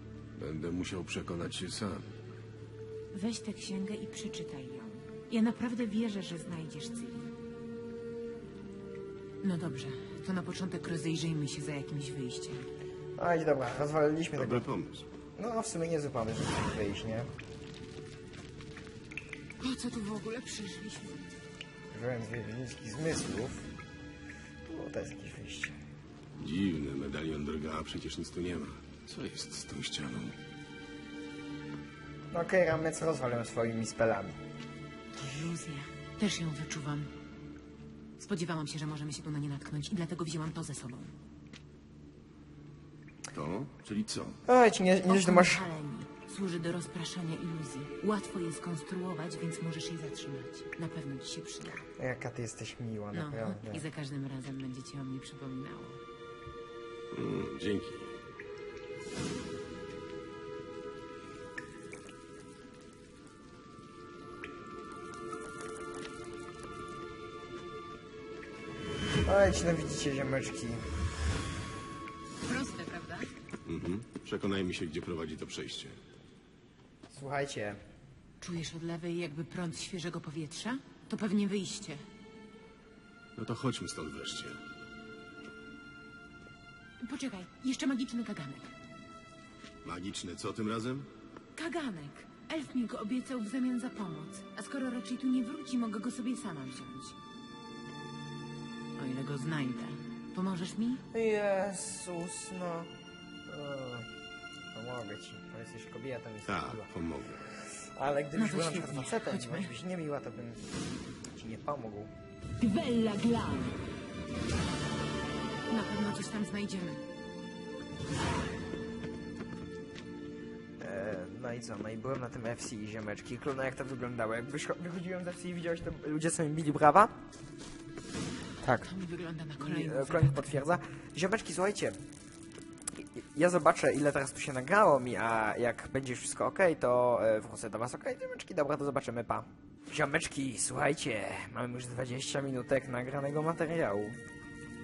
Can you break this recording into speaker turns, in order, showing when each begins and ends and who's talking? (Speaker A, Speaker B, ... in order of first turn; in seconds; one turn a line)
Speaker A: 0.4-2.0
Speaker B: 3.1-7.3
Speaker B: 9.4-12.7
Speaker C: 13.2-14.7
Speaker A: 14.3-15.1
Speaker C: 15.3-17.3
Speaker B: 19.6-21.2
Speaker C: 21.9-23.7
Speaker C: 24.6-25.8
Speaker A: 26.4-30.3
Speaker C: 32.3-34.3
Speaker B: 35.2-37.1
Speaker B: 38.2-41.1
Speaker A: 43.3-44.4
Speaker C: 44.5-45.6
Speaker B: 45.1-51.9
Speaker C: 52.0-53.8
Speaker B: 53.1-56.0
Speaker A: 57.1-58.1
Speaker C: 69.2-70.8
Speaker B: 72.4-73.3
Speaker A: 73.7-76.0
Speaker C: 77.1-77.8
Speaker B: 78.4-82.0
Speaker A: 83.3-84.6
Speaker B: 87.0-88.7
Speaker A: 89.8-91.1
Speaker B: 91.5-97.2
Speaker B: 99.0-101.0
Speaker C: 101.1-102.9
Speaker C: 103.5-104.1
Speaker C: 104.7-106.9
Speaker A: 106.5-107.4
Speaker C: 108.0-110.7
Speaker B: 108.3-109.7
Speaker C: 111.3-112.1
Speaker B: 112.6-113.8
Speaker B: 115.7-117.0
Speaker C: 120.8-127.1
Speaker C: 128.6-128.9
Speaker B: 128.8-130.6
Speaker C: 129.6-132.0
Speaker C: 133.0-144.2